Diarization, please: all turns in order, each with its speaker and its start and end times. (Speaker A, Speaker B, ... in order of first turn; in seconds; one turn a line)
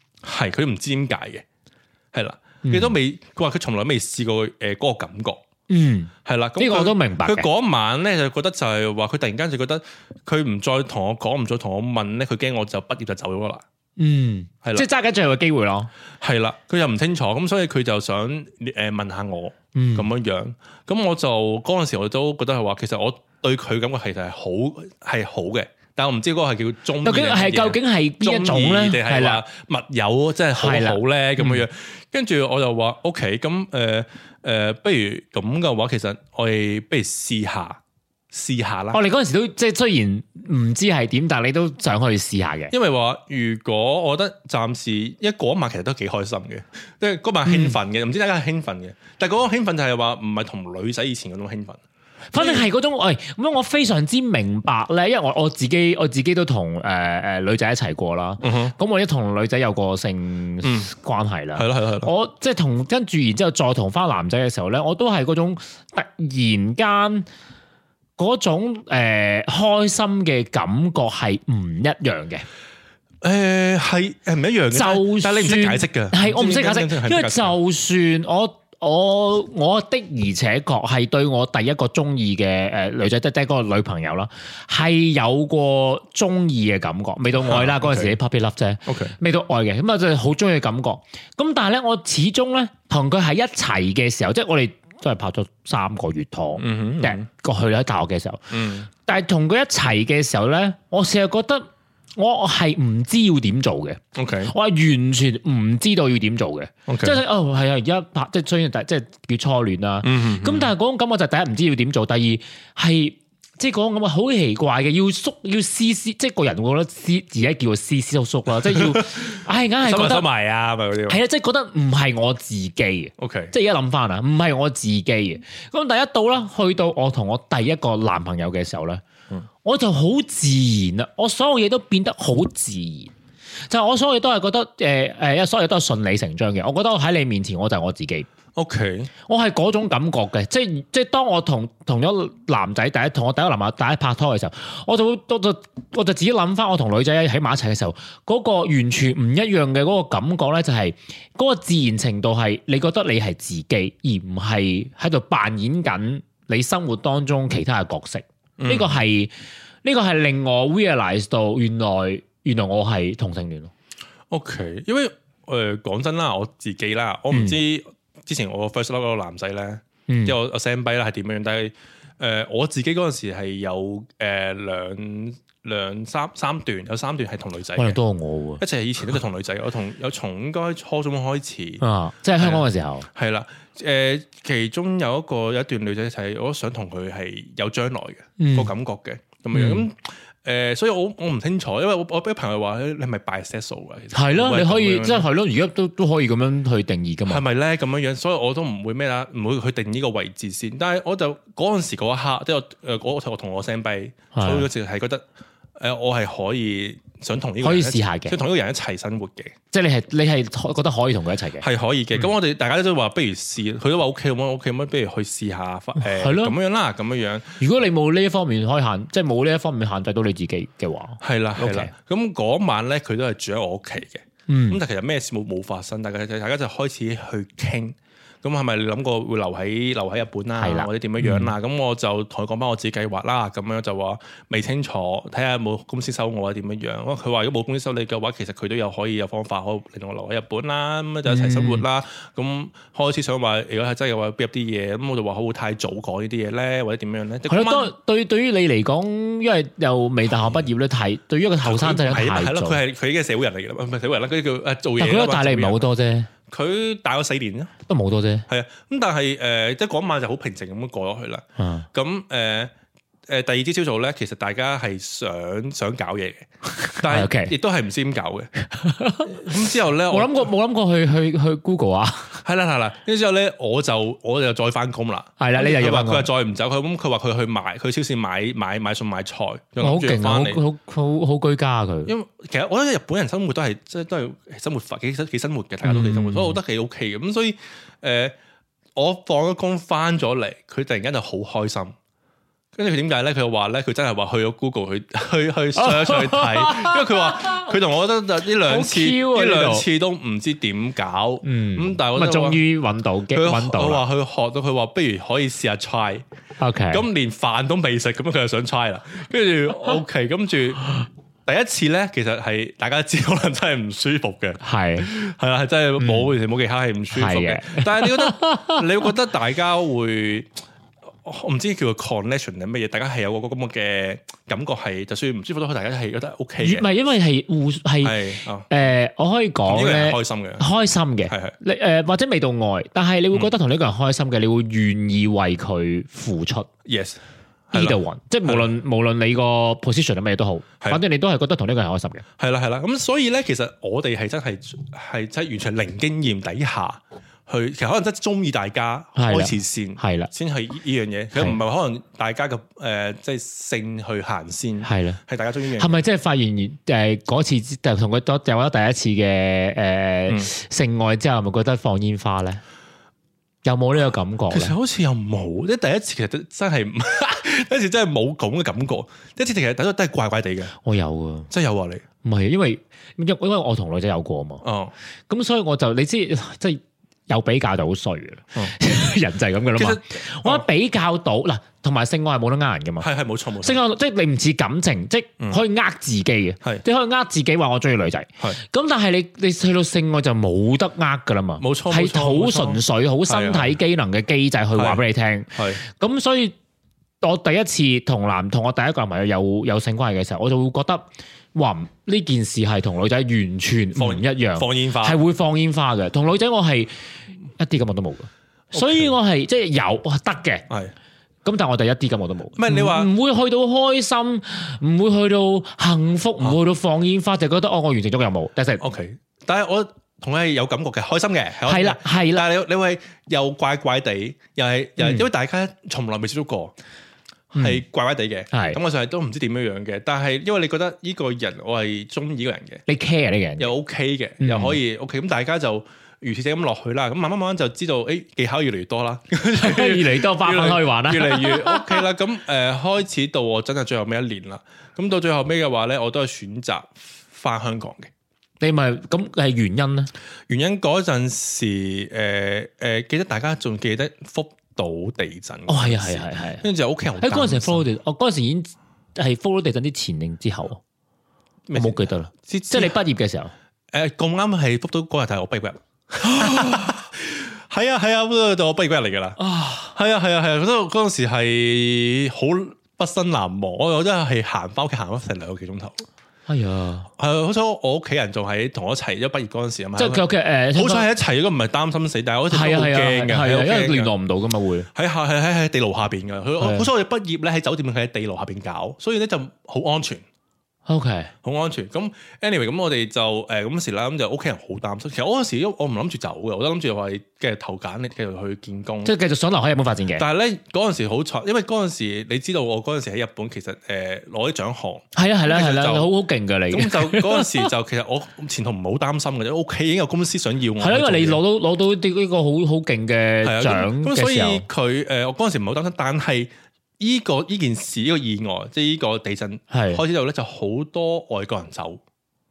Speaker A: 0.2-1.4
Speaker A: 2.1-5.4
Speaker B: 2.6-3.0
Speaker B: 5.7-7.5
Speaker A: 6.2-13.6
Speaker B: 14.0-15.9
Speaker A: 16.2-37.8
Speaker B: 19.8-20.1
Speaker B: 27.0-29.4
Speaker B: 30.6-31.6
Speaker A: 38.3-39.0
Speaker B: 38.9-42.7
Speaker A: 42.7-51.8
Speaker B: 47.5-47.8
Speaker B: 52.3-67.3
Speaker A: 52.4-52.7
Speaker A: 58.4-58.7
Speaker A: 60.6-60.9
Speaker A: 61.6-62.1
Speaker B: 68.2-72.5
Speaker A: 73.2-77.5
Speaker B: 74.7-101.7
Speaker A: 87.4-88.2
Speaker A: 88.9-89.2
Speaker A: 96.6-97.2
Speaker A: 98.5-98.9
Speaker B: 102.2-120.3
Speaker A: 104.2-104.5
Speaker A: 106.9-107.2
Speaker A: 110.0-110.7
Speaker A: 118.5-121.2
Speaker B: 121.1-129.0
Speaker A: 123.2-123.5
Speaker B: 129.6-133.1
Speaker B: 133.7-138.3
Speaker A: 138.6-139.1
Speaker B: 139.3-159.3
Speaker A: 158.6-159.0
Speaker B: 159.8-163.7
Speaker A: 164.3-178.0
Speaker B: 167.3-167.6
Speaker B: 170.1-170.4
Speaker B: 177.8-178.6
Speaker A: 178.6-181.8
Speaker B: 181.8-183.1
Speaker A: 182.4-195.3
Speaker B: 188.4-188.7
Speaker B: 189.5-189.8
Speaker B: 194.1-197.4
Speaker A: 197.3-205.2
Speaker B: 204.3-204.7
Speaker A: 205.8-209.6
Speaker B: 207.6-208.4
Speaker B: 209.7-211.7
Speaker A: 211.6-217.6
Speaker B: 216.0-216.6
Speaker B: 217.6-221.9
Speaker A: 221.2-247.9
Speaker B: 224.5-224.8
Speaker B: 230.6-231.5
Speaker B: 241.3-241.8
Speaker B: 247.5-252.8
Speaker A: 251.6-255.8
Speaker B: 255.0-256.3
Speaker A: 256.5-257.7
Speaker B: 257.9-258.5
Speaker A: 258.5-262.7
Speaker B: 261.6-261.9
Speaker A: 263.3-268.5
Speaker B: 266.8-267.5
Speaker B: 268.7-272.4
Speaker A: 269.3-270.5
Speaker A: 272.4-280.6
Speaker B: 275.4-276.3
Speaker B: 279.8-282.1
Speaker A: 282.1-288.4
Speaker B: 285.8-286.6
Speaker A: 288.9-291.9
Speaker A: 292.8-302.6
Speaker B: 295.8-297.7
Speaker B: 298.6-299.9
Speaker B: 301.4-304.0
Speaker A: 303.3-306.2
Speaker B: 306.6-307.1
Speaker A: 306.9-320.5
Speaker B: 314.6-315.1
Speaker B: 316.0-316.3
Speaker B: 317.1-318.8
Speaker A: 321.1-326.9
Speaker B: 326.6-328.2
Speaker A: 328.0-328.7
Speaker B: 328.7-336.7
Speaker A: 329.7-330.6
Speaker A: 331.3-331.6
Speaker A: 336.9-337.2
Speaker A: 337.7-338.7
Speaker B: 337.7-342.2
Speaker A: 342.4-355.9
Speaker B: 349.2-350.3
Speaker B: 354.8-355.2
Speaker B: 355.8-362.6
Speaker B: 363.6-364.8
Speaker A: 364.5-370.7
Speaker B: 370.8-371.5
Speaker A: 371.5-372.0
Speaker B: 372.2-374.6
Speaker A: 374.6-374.9
Speaker B: 375.3-383.1
Speaker A: 379.8-380.7
Speaker A: 383.0-383.8
Speaker B: 383.6-396.6
Speaker A: 391.6-393.8
Speaker A: 394.8-395.0
Speaker A: 395.5-395.8
Speaker B: 397.2-410.7
Speaker A: 404.0-405.2
Speaker A: 408.7-409.1
Speaker A: 410.7-410.9
Speaker B: 411.4-418.8
Speaker A: 412.6-413.1
Speaker A: 418.8-426.8
Speaker B: 421.7-422.5
Speaker B: 425.0-425.3
Speaker A: 427.5-432.8
Speaker B: 427.6-427.8
Speaker B: 428.5-428.8
Speaker B: 432.9-433.7
Speaker A: 433.6-448.1
Speaker B: 434.4-434.8
Speaker B: 439.6-442.1
Speaker B: 448.6-450.1
Speaker A: 450.5-457.9
Speaker B: 455.7-456.7
Speaker B: 457.2-460.8
Speaker A: 461.7-463.0
Speaker B: 461.8-463.5
Speaker A: 463.9-476.1
Speaker B: 469.4-469.9
Speaker B: 476.5-477.1
Speaker A: 477.2-484.1
Speaker B: 480.0-481.1
Speaker B: 482.5-484.9
Speaker A: 484.9-490.2
Speaker B: 486.6-486.9
Speaker B: 490.9-491.3
Speaker A: 491.4-499.1
Speaker B: 499.1-500.2
Speaker A: 500.2-506.1
Speaker B: 505.1-507.7
Speaker A: 506.7-511.4
Speaker B: 510.8-514.7
Speaker A: 513.4-522.0
Speaker B: 519.7-520.0